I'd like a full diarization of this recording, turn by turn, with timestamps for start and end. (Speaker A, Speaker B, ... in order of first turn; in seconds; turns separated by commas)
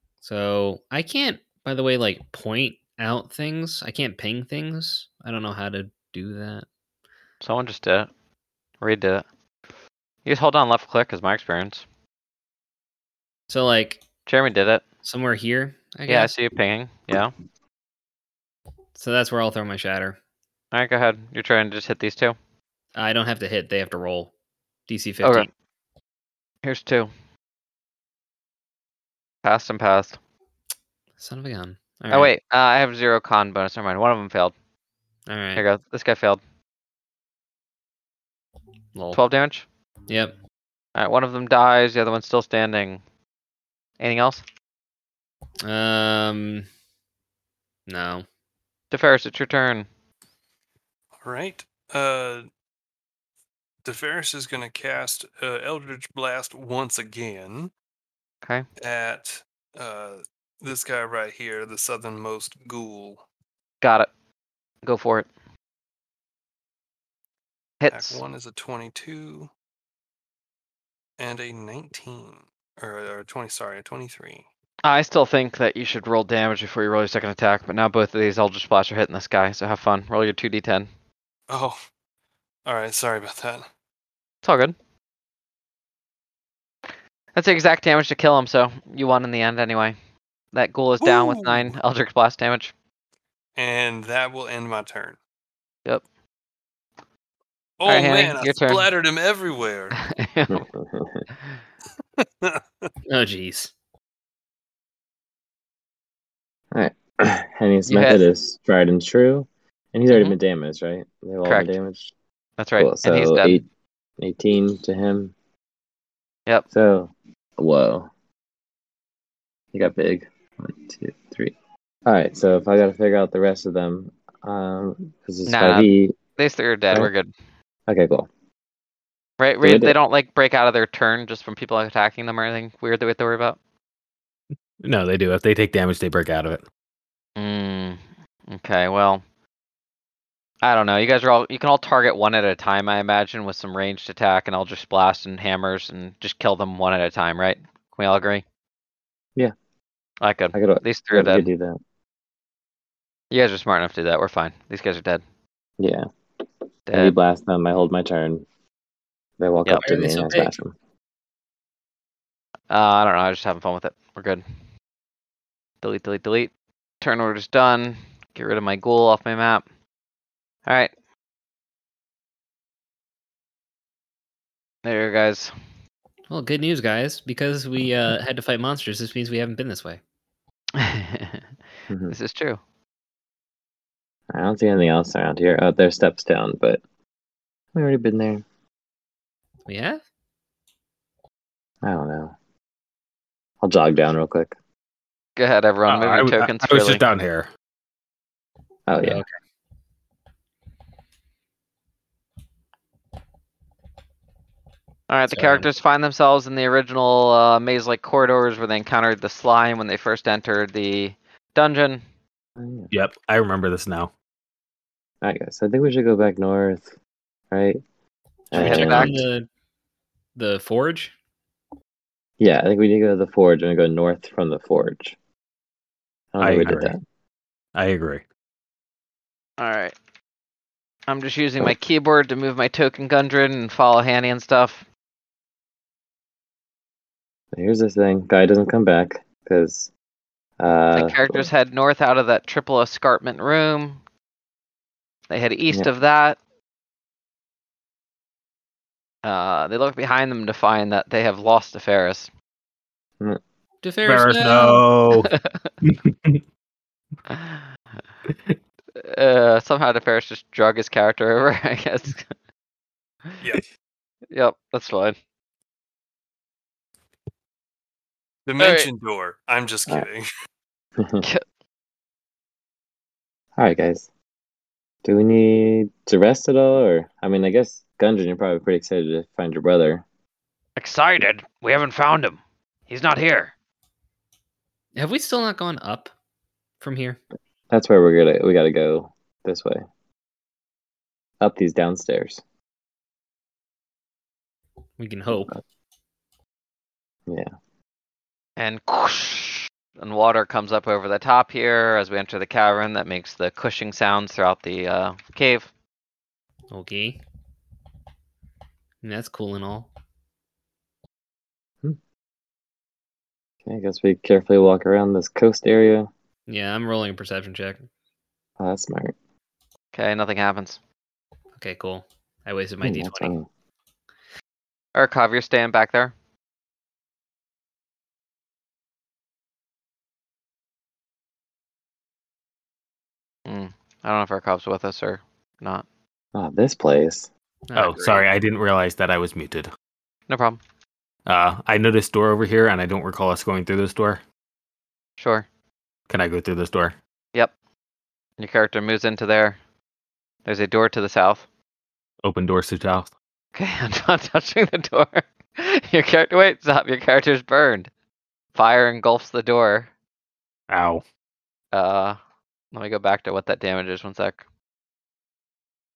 Speaker A: 0.2-6.7, Speaker B: 7.4-8.1, Speaker B: 8.8-9.2, Speaker B: 10.2-11.8, Speaker A: 13.5-14.0, Speaker B: 14.2-14.8, Speaker A: 15.0-16.3, Speaker B: 16.1-17.3, Speaker A: 18.9-20.2, Speaker B: 20.7-22.4, Speaker A: 22.9-24.3, Speaker A: 24.9-25.5, Speaker B: 25.2-25.5, Speaker B: 26.6-27.1, Speaker B: 29.4-30.2, Speaker A: 31.2-32.3, Speaker B: 32.1-34.5, Speaker A: 35.3-35.6, Speaker B: 35.5-36.4, Speaker A: 38.9-39.2, Speaker B: 39.1-39.6, Speaker A: 40.1-40.3, Speaker B: 41.0-43.0, Speaker B: 44.0-44.4, Speaker A: 45.6-46.7, Speaker A: 47.9-48.2, Speaker B: 48.9-49.9, Speaker C: 51.2-52.5, Speaker C: 53.8-57.7, Speaker C: 58.8-63.2, Speaker B: 63.8-64.1, Speaker B: 64.8-65.3, Speaker B: 67.8-68.2, Speaker C: 67.9-69.5, Speaker C: 71.2-74.4, Speaker B: 74.8-80.9, Speaker C: 81.5-81.8, Speaker C: 82.7-83.6, Speaker B: 84.4-84.7, Speaker B: 87.3-89.9, Speaker B: 90.5-92.7, Speaker C: 91.0-91.7, Speaker C: 93.5-95.2, Speaker C: 97.8-100.0, Speaker B: 97.8-98.9, Speaker B: 100.0-100.6, Speaker D: 100.5-101.2, Speaker C: 102.2-102.9, Speaker A: 103.1-103.7, Speaker D: 106.7-112.1, Speaker B: 107.9-108.2, Speaker B: 110.1-110.4, Speaker B: 111.4-111.7, Speaker B: 112.6-113.6, Speaker D: 112.8-113.6, Speaker D: 114.2-115.3, Speaker D: 116.7-118.1, Speaker D: 119.7-121.5, Speaker D: 122.0-126.2, Speaker B: 125.5-127.3, Speaker D: 127.9-128.3, Speaker B: 129.4-133.6, Speaker D: 129.6-129.9, Speaker E: 134.8-136.6, Speaker B: 137.3-139.2, Speaker B: 140.6-148.4, Speaker B: 150.2-151.4, Speaker D: 150.5-151.8, Speaker B: 153.3-155.2, Speaker D: 155.8-156.0, Speaker B: 156.9-157.1, Speaker D: 156.9-158.4, Speaker D: 159.4-160.7, Speaker A: 159.8-160.5, Speaker B: 162.7-164.4, Speaker B: 165.8-169.6, Speaker B: 174.8-175.5, Speaker A: 176.3-180.0, Speaker B: 180.8-181.4, Speaker D: 181.9-182.1, Speaker B: 182.1-182.6, Speaker D: 184.3-186.8, Speaker D: 187.7-188.4, Speaker A: 189.7-190.0, Speaker D: 191.8-192.3, Speaker D: 193.6-194.5, Speaker B: 195.4-197.0, Speaker E: 195.8-197.5, Speaker D: 198.9-199.2, Speaker A: 199.0-199.3, Speaker B: 205.1-212.0, Speaker A: 205.3-205.6, Speaker D: 212.6-212.9, Speaker E: 212.9-214.1, Speaker D: 215.2-216.9, Speaker D: 217.5-217.8, Speaker D: 218.5-219.2, Speaker B: 218.5-219.2, Speaker A: 218.5-219.4, Speaker A: 220.3-221.1, Speaker D: 222.4-225.2, Speaker D: 226.3-227.0, Speaker E: 226.4-226.9, Speaker E: 227.7-228.2, Speaker B: 229.6-229.9, Speaker B: 231.1-234.8, Speaker D: 237.5-239.9, Speaker D: 240.6-241.5, Speaker B: 240.9-244.0, Speaker B: 245.3-246.4, Speaker B: 249.2-252.3, Speaker A: 253.8-254.8, Speaker E: 254.0-255.3, Speaker B: 255.3-255.7, Speaker E: 255.8-256.4, Speaker B: 257.3-257.6, Speaker E: 258.3-258.6, Speaker B: 258.9-262.3, Speaker B: 264.3-265.2, Speaker C: 268.5-270.3, Speaker B: 268.6-268.9, Speaker D: 271.0-271.2, Speaker D: 273.6-274.1, Speaker D: 275.0-280.0, Speaker B: 280.8-283.5, Speaker A: 284.9-286.1, Speaker A: 286.8-287.2, Speaker D: 287.7-289.8, Speaker D: 291.4-292.4, Speaker A: 295.0-295.6, Speaker B: 298.6-305.7, Speaker A: 306.7-307.2, Speaker A: 309.0-309.9, Speaker D: 313.6-316.1, Speaker A: 316.5-317.8, Speaker D: 318.6-319.1, Speaker B: 319.9-320.8, Speaker A: 321.6-323.3, Speaker D: 322.8-323.4, Speaker B: 324.9-326.1, Speaker B: 333.4-335.9, Speaker D: 336.3-337.3, Speaker A: 337.7-338.2, Speaker E: 337.7-339.7, Speaker B: 340.3-340.6, Speaker E: 341.2-344.2, Speaker B: 345.2-345.4, Speaker E: 346.1-346.9, Speaker B: 348.4-349.6, Speaker B: 350.4-351.4, Speaker E: 352.2-353.1, Speaker B: 353.5-357.9, Speaker B: 358.5-359.9, Speaker E: 360.7-361.0, Speaker B: 361.7-362.2, Speaker B: 362.7-364.4